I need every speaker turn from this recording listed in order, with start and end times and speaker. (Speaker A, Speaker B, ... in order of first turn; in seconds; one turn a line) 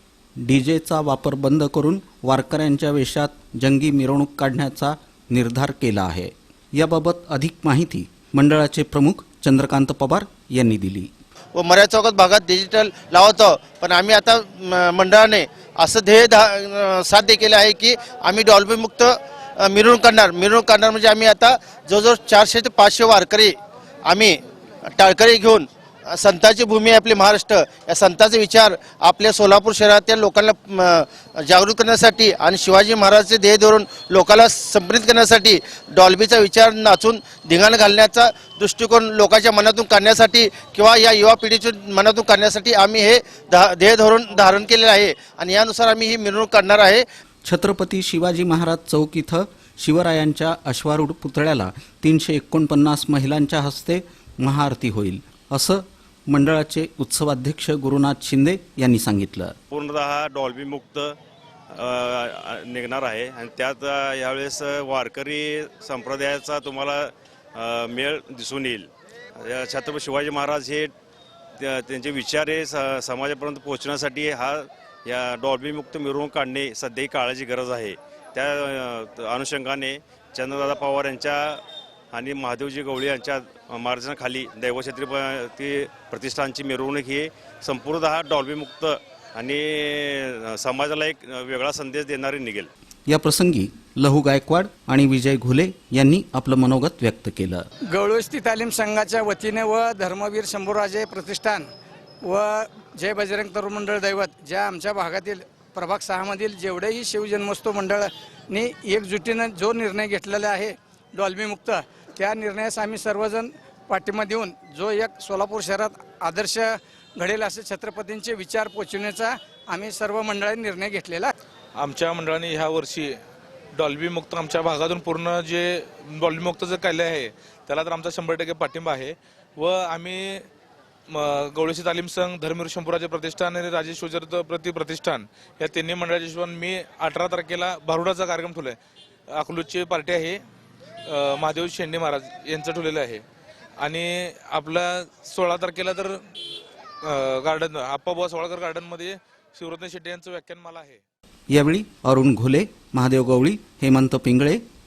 Speaker A: 0.4-11.1
Speaker B: 11.5-47.0
Speaker A: 47.4-59.5
Speaker C: 59.7-61.1
Speaker C: 61.7-70.9
Speaker C: 71.6-81.6
Speaker C: 82.1-92.7
Speaker A: 93.1-97.7
Speaker D: 97.9-101.7
Speaker D: 102.2-121.3
Speaker E: 121.9-123.1
Speaker E: 123.8-127.3
Speaker E: 127.8-130.3
Speaker E: 131.1-138.7
Speaker E: 139.3-140.4
Speaker E: 141.1-143.2
Speaker E: 145.2-146.1
Speaker E: 147.1-150.6
Speaker A: 151.5-154.6